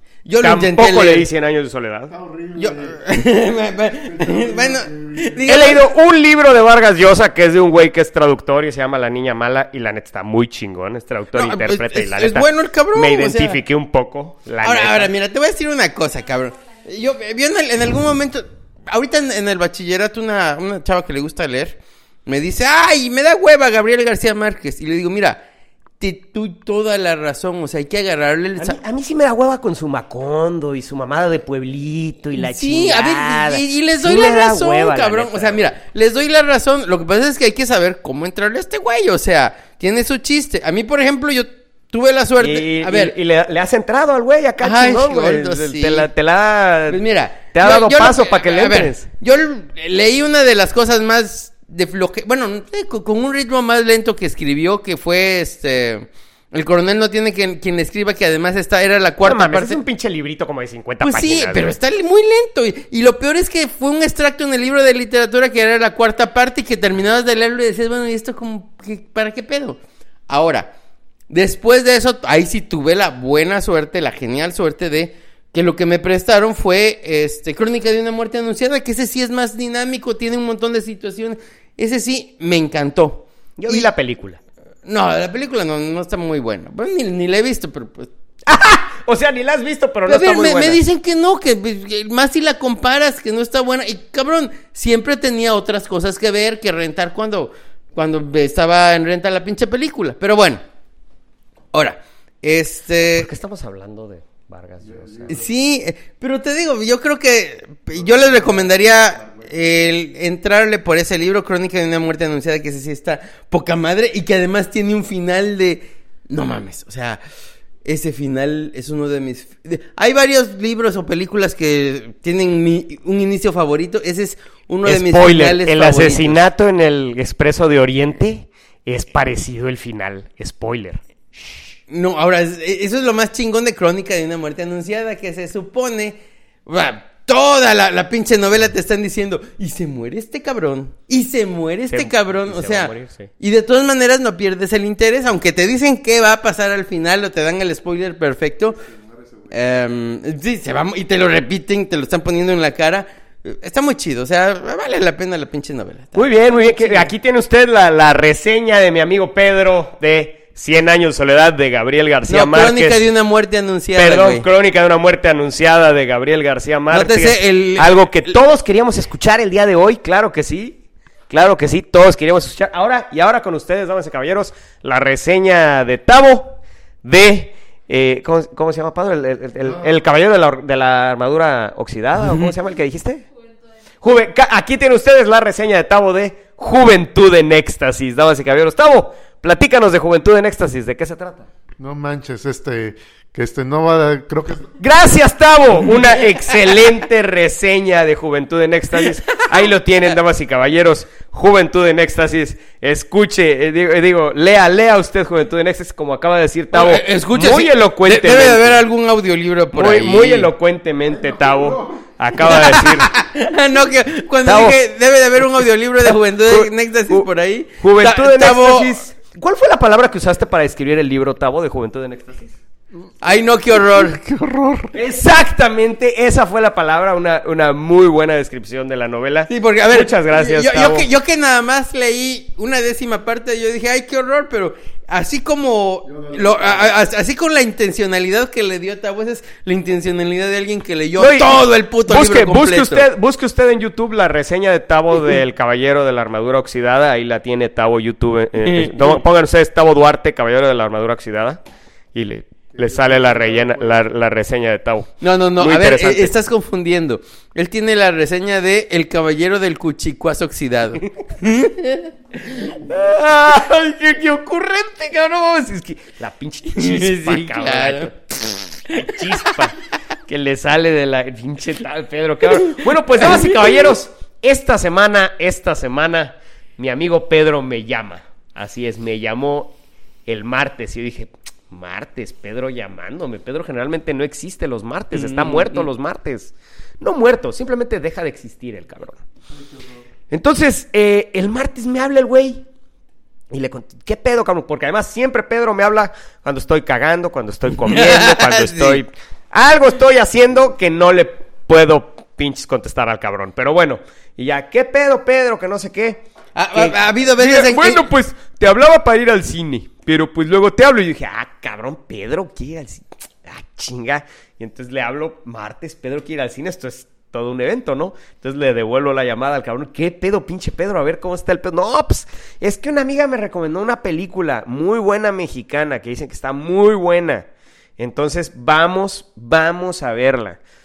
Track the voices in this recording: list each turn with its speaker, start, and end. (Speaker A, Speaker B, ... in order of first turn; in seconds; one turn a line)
Speaker A: 0.2-1.3
Speaker B: 0.4-2.1
Speaker C: 2.1-3.0
Speaker A: 2.5-5.9
Speaker C: 4.1-5.3
Speaker B: 5.5-15.1
Speaker A: 11.3-13.6
Speaker A: 14.6-25.4
Speaker A: 26.0-28.8
Speaker B: 28.6-35.6
Speaker A: 32.4-43.1
Speaker B: 42.4-47.0
Speaker A: 44.6-46.1
Speaker A: 46.9-59.8
Speaker B: 47.5-49.1
Speaker B: 59.2-61.7
Speaker A: 61.0-70.7
Speaker A: 71.3-83.9
Speaker B: 83.6-84.4
Speaker A: 84.8-88.1
Speaker B: 88.5-90.8
Speaker A: 90.0-100.6
Speaker A: 101.7-103.3
Speaker B: 103.1-105.4
Speaker C: 104.8-105.3
Speaker A: 105.3-117.2
Speaker C: 108.3-108.5
Speaker A: 117.8-126.4
Speaker B: 124.8-131.5
Speaker A: 131.9-148.8
Speaker B: 141.9-143.3
Speaker A: 149.5-157.1
Speaker B: 156.1-163.1
Speaker A: 162.3-164.4
Speaker B: 163.9-183.3
Speaker A: 166.9-168.3
Speaker B: 184.0-191.5
Speaker C: 191.8-194.7
Speaker B: 194.8-208.8
Speaker A: 206.7-210.5
Speaker B: 209.7-213.1
Speaker C: 211.2-211.8
Speaker A: 212.4-219.0
Speaker B: 214.4-214.8
Speaker B: 215.4-217.3
Speaker B: 217.8-222.5
Speaker A: 223.2-224.5
Speaker C: 224.4-224.9
Speaker B: 224.9-231.1
Speaker A: 229.5-243.1
Speaker C: 236.1-236.9
Speaker B: 241.2-251.6
Speaker A: 248.6-249.2
Speaker B: 252.1-256.4
Speaker C: 252.8-253.9
Speaker A: 255.2-262.6
Speaker B: 262.7-268.1
Speaker A: 266.7-268.1
Speaker A: 268.9-269.5
Speaker B: 268.9-279.7
Speaker A: 272.6-273.9
Speaker B: 280.3-289.2
Speaker A: 285.1-285.9
Speaker B: 290.3-292.6
Speaker B: 293.5-327.5
Speaker A: 297.8-299.0
Speaker A: 306.5-308.0
Speaker B: 328.0-330.6